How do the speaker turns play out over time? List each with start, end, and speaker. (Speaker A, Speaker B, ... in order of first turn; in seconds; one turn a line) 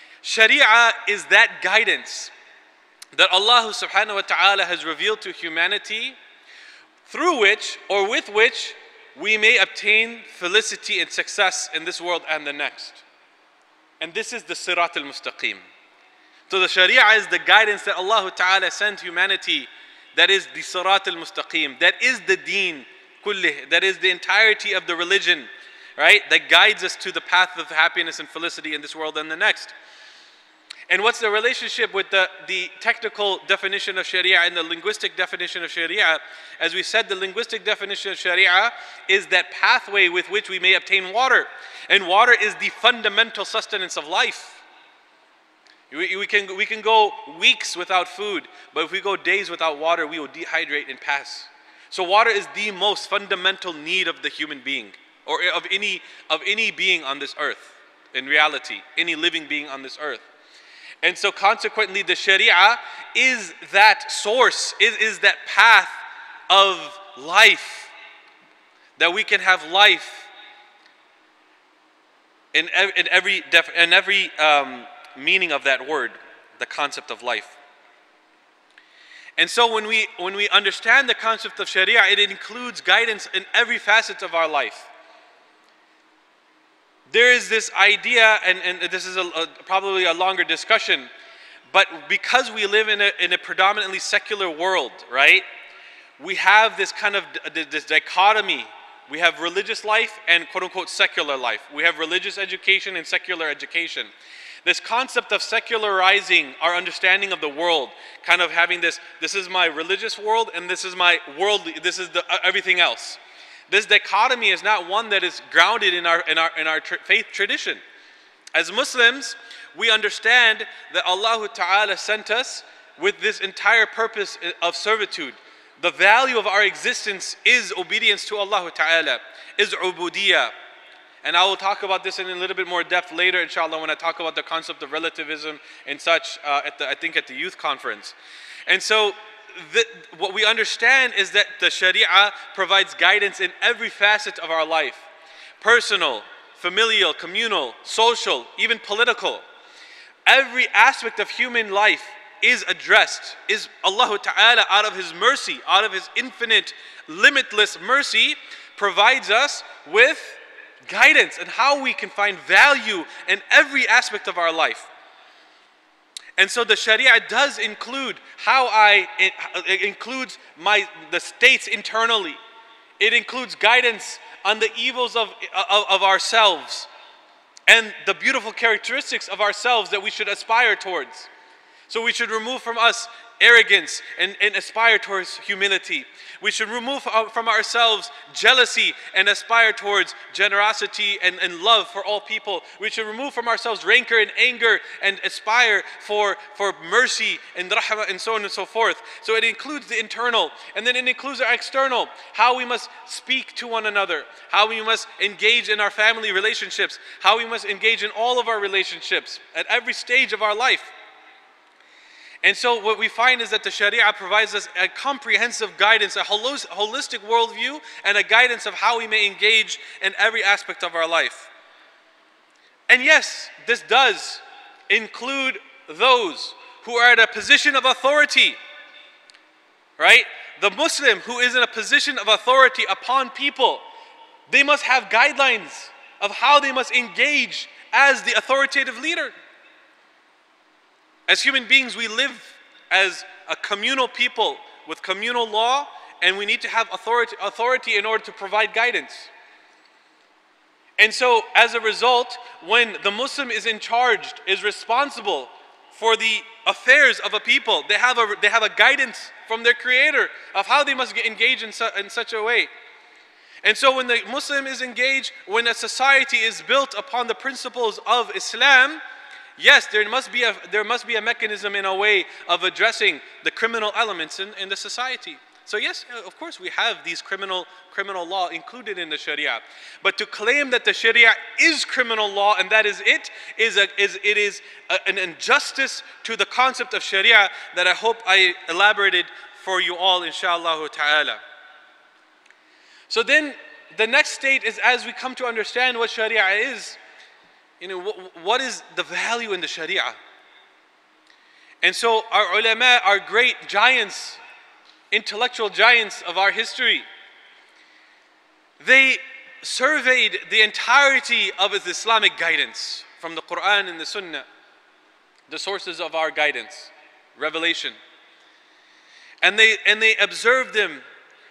Speaker A: 0.2-2.3
Speaker A: 3.1-6.2
Speaker A: 7.1-13.0
Speaker A: 14.0-15.6
Speaker A: 16.5-29.7
Speaker A: 30.9-44.6
Speaker A: 45.9-60.3
Speaker A: 61.0-66.0
Speaker A: 66.5-67.9
Speaker A: 69.0-70.3
Speaker A: 72.5-77.6
Speaker A: 79.4-84.9
Speaker A: 87.1-91.1
Speaker A: 91.7-95.5
Speaker A: 96.2-104.1
Speaker A: 104.6-117.8
Speaker A: 118.5-130.5
Speaker A: 131.2-138.2
Speaker A: 138.7-145.1
Speaker A: 145.6-149.4
Speaker A: 150.3-164.9
Speaker A: 166.4-172.4
Speaker A: 173.0-176.9
Speaker A: 177.7-181.3
Speaker A: 181.9-210.9
Speaker A: 212.4-221.5
Speaker A: 222.9-228.6
Speaker A: 230.0-233.8
Speaker A: 234.5-239.3
Speaker A: 241.3-249.3
Speaker A: 251.0-262.7
Speaker A: 263.6-269.0
Speaker A: 269.6-291.4
Speaker A: 293.1-297.0
Speaker A: 297.8-300.1
Speaker A: 301.8-304.4
Speaker A: 305.1-307.1
Speaker A: 308.8-314.4
Speaker A: 315.5-318.0
Speaker A: 319.4-321.0